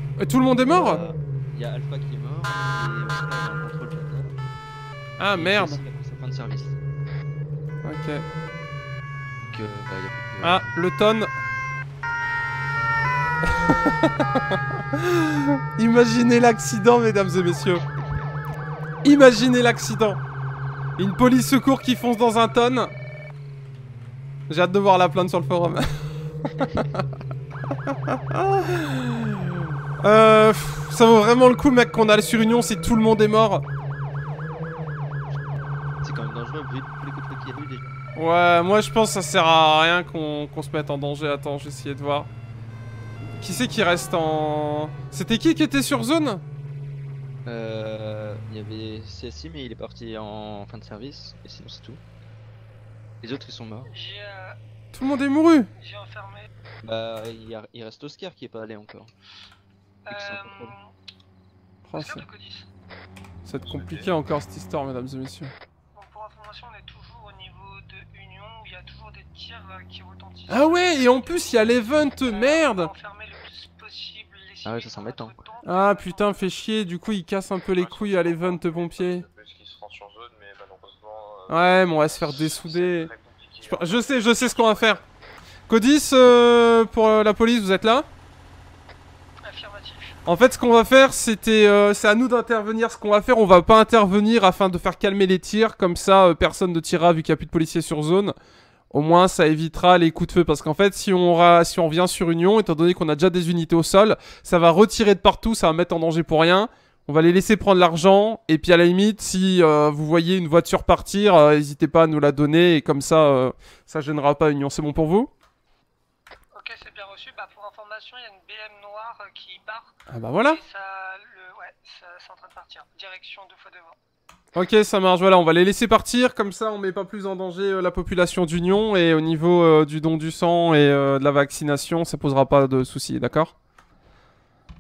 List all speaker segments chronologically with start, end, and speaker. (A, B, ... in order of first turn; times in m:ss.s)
0:00.2-0:01.0 A
0:00.7-0:04.4 B
0:05.2-0:05.8 A
0:05.3-0:06.8 B
0:07.8-0:08.2 A
0:09.4-0:10.7 B
0:10.4-0:11.3 A
0:13.6-0:14.2 A
0:15.0-0:17.8 A
0:17.9-0:18.3 B
0:19.0-0:20.2 A
0:21.0-0:22.9 A
0:24.5-0:25.9 A
0:26.5-0:27.0 A
0:28.1-0:29.4 A
0:30.0-0:33.6 A
0:36.0-0:38.0 B
0:38.2-0:42.3 A
0:43.4-0:46.4 A
0:47.4-0:52.0 B
0:53.2-0:53.9 B
0:53.9-0:54.6 C
0:54.9-0:55.7 A
0:55.8-0:56.5 C
0:56.8-0:59.1 B
1:00.1-1:00.9 C
1:00.1-1:00.8 B
1:01.9-1:02.2 A
1:02.0-1:02.7 C
1:03.5-1:05.5 A
1:03.6-1:04.1 D
1:06.0-1:16.5 C
1:10.5-1:12.9 A
1:14.6-1:15.4 B
1:15.6-1:19.3 A
1:17.7-1:25.0 D
1:21.5-1:23.1 A
1:23.7-1:25.0 A
1:25.7-1:28.1 A
1:29.4-1:30.2 C
1:30.3-1:38.4 A
1:38.9-1:55.3 A
1:56.5-2:04.0 C
2:00.1-2:00.6 A
2:04.6-2:13.5 A